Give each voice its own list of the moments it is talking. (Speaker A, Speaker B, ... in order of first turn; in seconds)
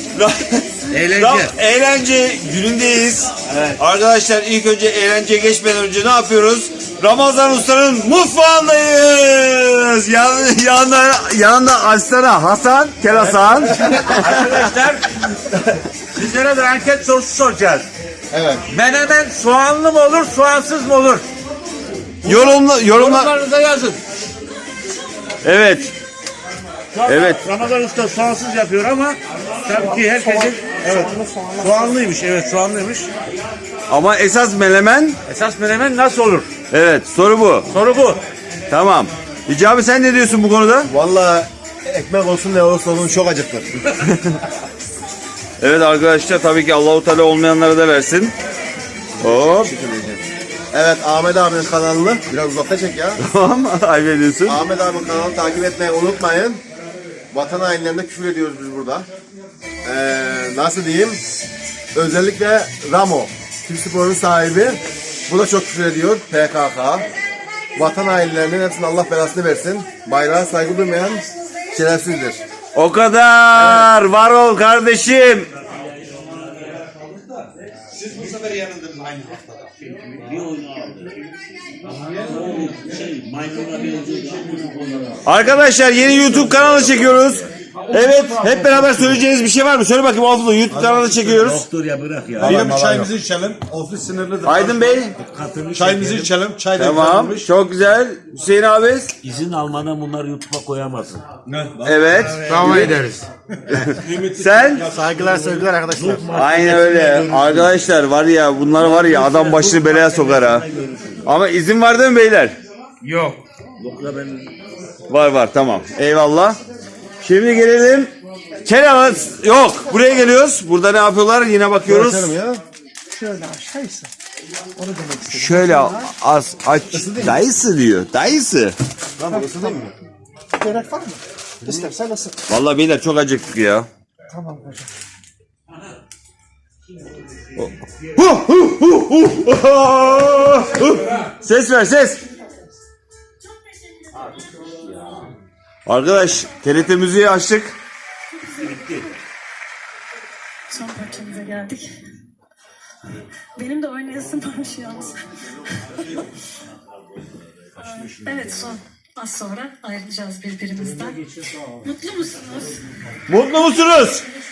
Speaker A: 0.1-14.3, 22.2-23.3, 25.4-25.9, 27.1-27.4, 33.9-35.2, 36.7-37.7, 38.7-40.9, 45.6-48.3, 49.2-49.7, 53.2-54.6, 72.8-75.5, 85.2-91.6, 94.5-95.2, 96.8-99.1, 101.8-103.1, 103.7-104.9, 106.3-110.7, 111.2-112.6, 115.1-116.6, 117.2-118.1, 118.7-122.3, 125.3-128.8, 132.5-133.9, 137.6-142.2, 145.9-147.7, 163.3-164.2
Speaker B: 0.9-1.5, 13.3-17.9, 18.7-21.3, 22.2-24.0, 26.9-33.1, 35.3-36.5, 37.7-38.2, 78.3-79.3, 79.8-81.2, 82.0-85.2, 87.9-89.2, 91.2-92.7, 95.1-96.3, 99.2-101.2, 102.4-103.0, 105.4-107.8, 108.8-111.2, 113.0-114.5, 148.7-149.0, 158.0-158.3
Speaker C: 18.3-18.6, 40.9-43.7, 49.2-50.2, 50.7-53.2, 54.5-56.6, 57.3-59.1, 59.9-61.2, 61.9-67.1, 67.8-72.4, 92.4-93.1, 104.9-105.7, 121.9-122.6, 126.9-127.4, 129.2-129.9, 131.6-131.9
Speaker D: 29.9-32.0, 102.7-103.1, 104.9-106.2, 123.1-124.1, 124.8-126.0, 130.6-132.4, 134.3-134.9
Speaker E: 92.5-94.7, 95.7-97.5, 101.5-102.6, 104.2-105.3
Speaker F: 150.7-151.9, 153.6-155.2, 155.7-156.2, 157.8-163.2